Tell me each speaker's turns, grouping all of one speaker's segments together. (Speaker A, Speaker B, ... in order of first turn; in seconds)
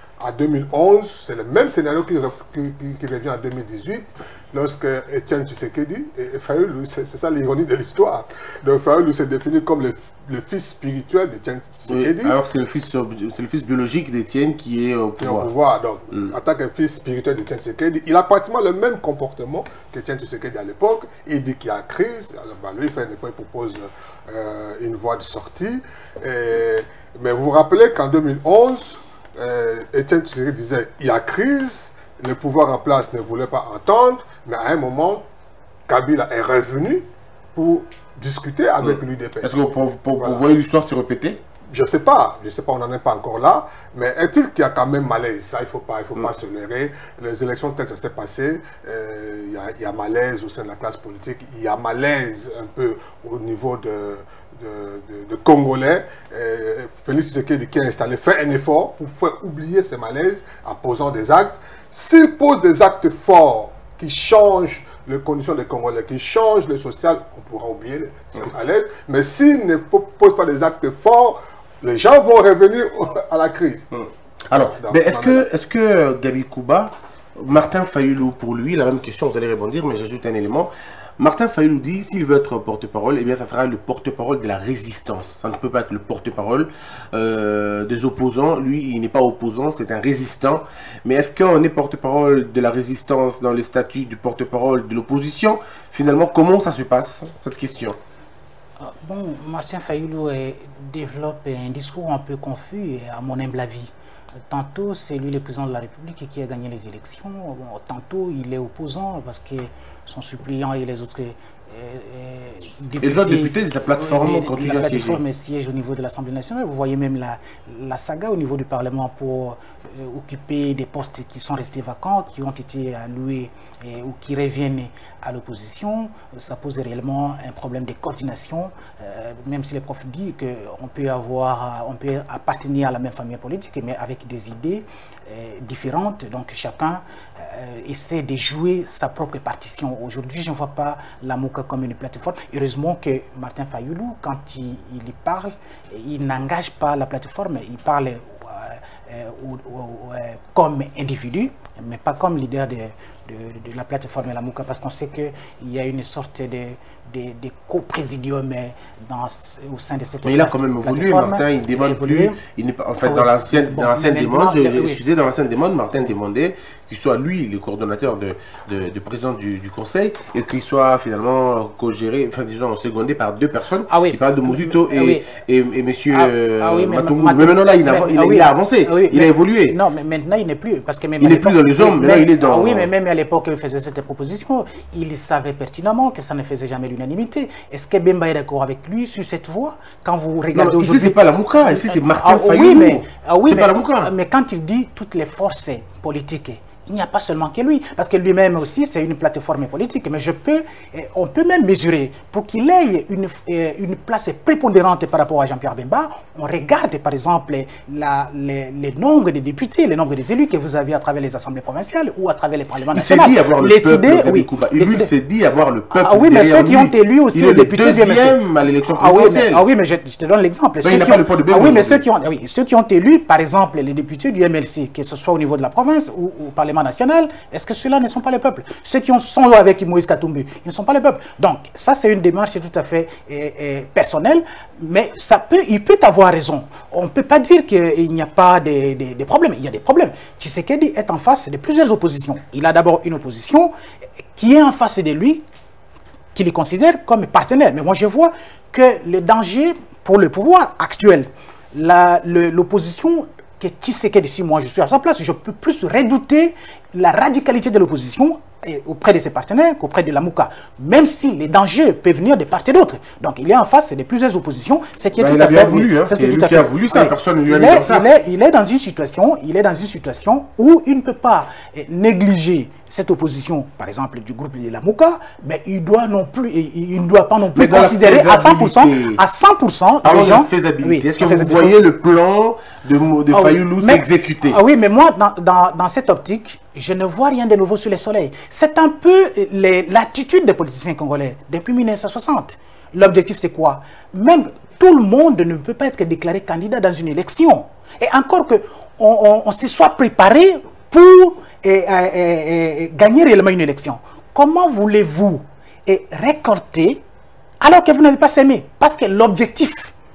Speaker A: 0.2-12.3, 15.2-35.2, 35.9-39.6, 40.2-40.4, 41.7-73.9, 74.5-75.4
Speaker B: 11.9-15.5, 38.8-41.4, 73.9-98.0, 113.0-115.2, 160.2-179.8, 181.2-182.9, 190.5-194.1, 212.9-219.6, 220.8-222.0, 265.2-268.1, 277.5-279.2, 280.0-284.6
Speaker C: 98.8-103.9, 104.5-162.4, 163.0-165.0, 173.9-175.3, 176.1-215.1, 215.9-243.7, 244.3-245.4, 246.3-281.8, 283.3-307.0, 307.6-309.9